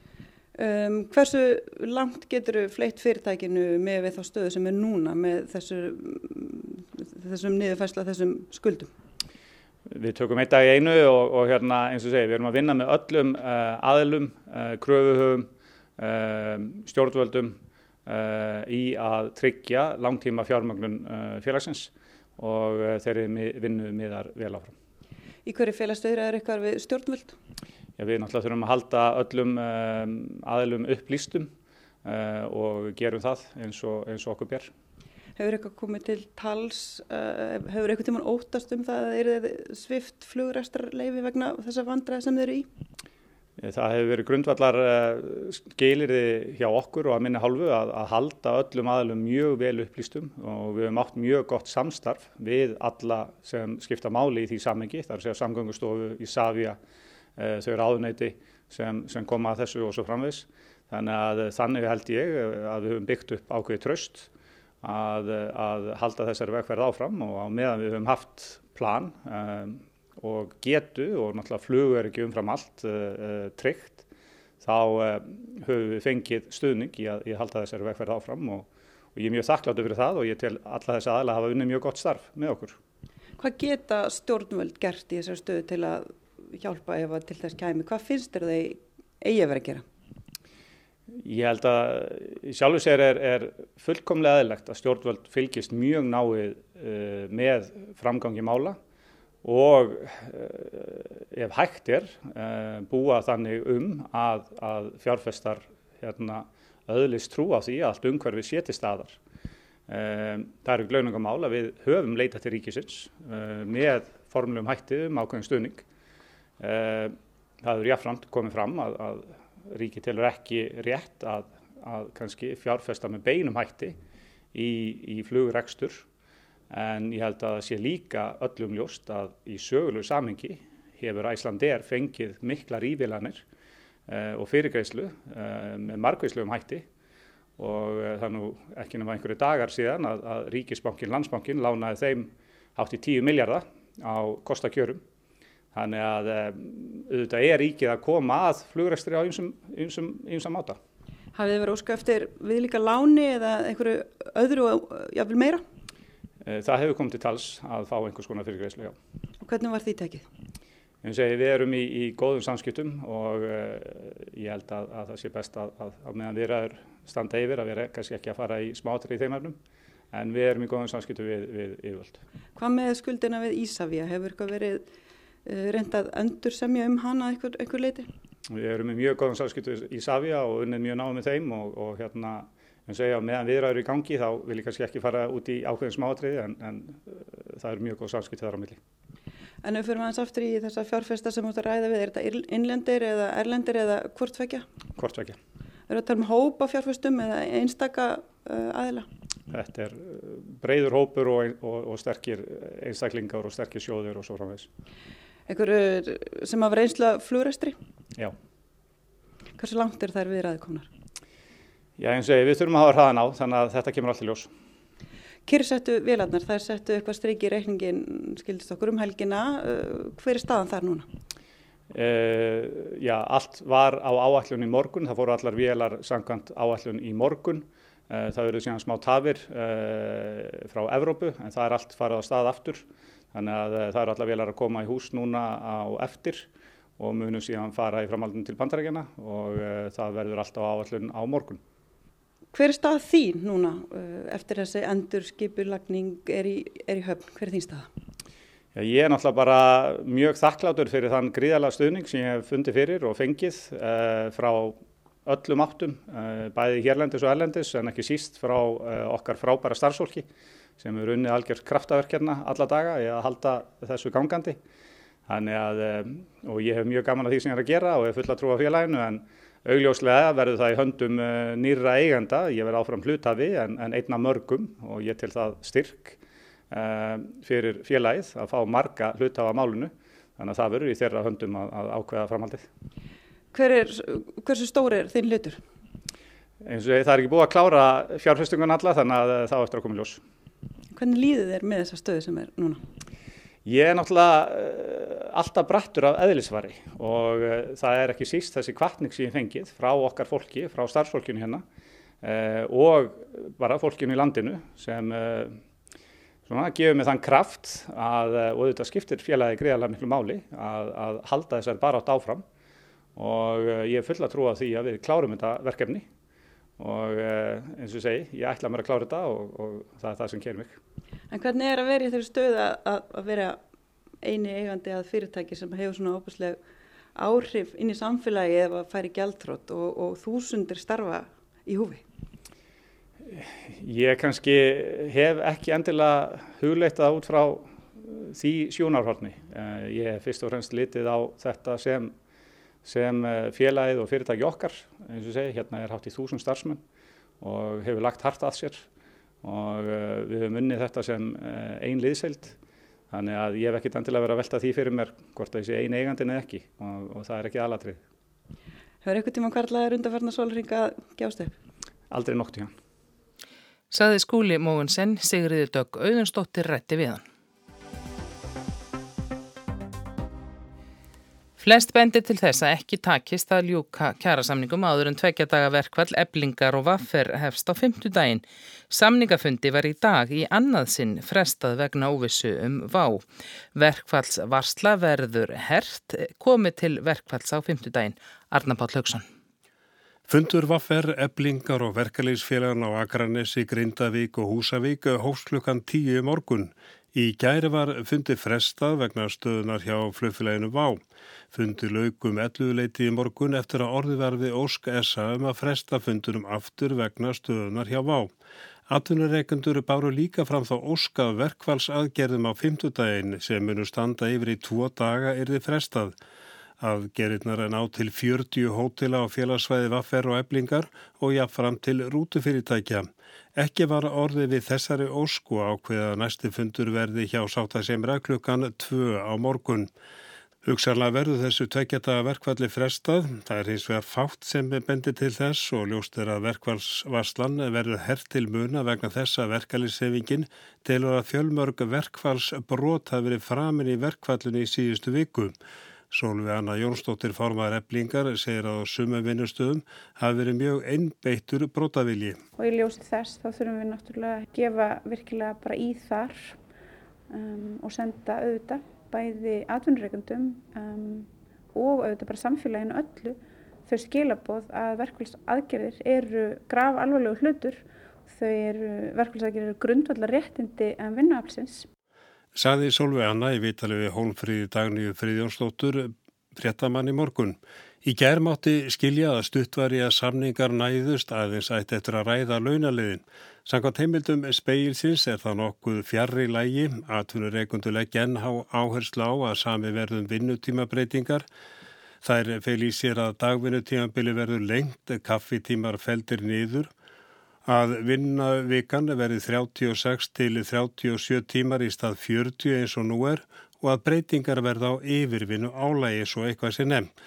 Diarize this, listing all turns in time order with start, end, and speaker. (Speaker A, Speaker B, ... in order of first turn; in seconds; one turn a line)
Speaker A: 0.6-8.9
Speaker B: 9.9-24.7
Speaker A: 25.4-27.4
Speaker B: 28.0-31.5
Speaker B: 32.0-34.7
Speaker A: 35.4-42.7
Speaker B: 43.6-56.8
Speaker B: 57.4-64.3
Speaker B: 64.8-74.0
Speaker B: 74.6-82.8
Speaker A: 83.4-89.8
Speaker B: 91.2-98.8
Speaker B: 99.4-109.2
Speaker B: 109.9-115.8
Speaker B: 116.6-124.0
Speaker B: 124.5-126.1
Speaker B: 126.7-133.4
Speaker B: 134.1-136.8
Speaker B: 137.6-145.0
Speaker B: 145.7-150.8
Speaker A: 151.3-155.6
Speaker B: 156.4-159.0
Speaker A: 159.4-160.3
Speaker B: 161.0-169.6
Speaker B: 170.1-172.2
Speaker A: 172.6-174.9
Speaker A: 175.5-178.1
Speaker B: 178.5-188.8
Speaker A: 189.6-194.7
Speaker B: 195.0-195.4
Speaker A: 195.9-199.1
Speaker B: 199.5-204.7
Speaker A: 205.5-207.8
Speaker A: 209.6-210.9
Speaker B: 212.0-214.5
Speaker A: 215.5-221.1
Speaker B: 221.9-241.6
Speaker A: 242.5-247.9
Speaker B: 248.8-260.2
Speaker B: 260.8-264.6
Speaker B: 265.3-276.2
Speaker B: 276.7-282.7
Speaker A: 283.5-285.6
Speaker B: 286.6-290.2
Speaker A: 290.9-292.8
Speaker B: 293.6-301.6
Speaker B: 302.2-305.6
Speaker B: 306.5-312.4
Speaker B: 313.1-316.1
Speaker B: 316.8-320.8
Speaker A: 321.3-323.6
Speaker A: 324.2-326.6
Speaker A: 327.2-332.0
Speaker B: 333.3-342.1
Speaker B: 342.9-346.8
Speaker B: 347.4-348.9
Speaker B: 349.4-352.6
Speaker B: 353.1-358.0
Speaker A: 359.0-361.6
Speaker B: 362.1-362.7
Speaker C: 363.9-367.2
Speaker C: 371.6-383.2
Speaker C: 383.8-389.2
Speaker D: 390.3-401.0
Speaker D: 401.5-408.3
Speaker D: 408.9-416.1
Speaker D: 416.8-429.9
Speaker D: 430.6-445.6
Speaker D: 446.1-452.4
Speaker E: 452.6-456.6
Speaker E: 457.3-471.9
Speaker D: 472.6-491.4
Speaker D: 492.2-496.9
Speaker D: 497.6-507.1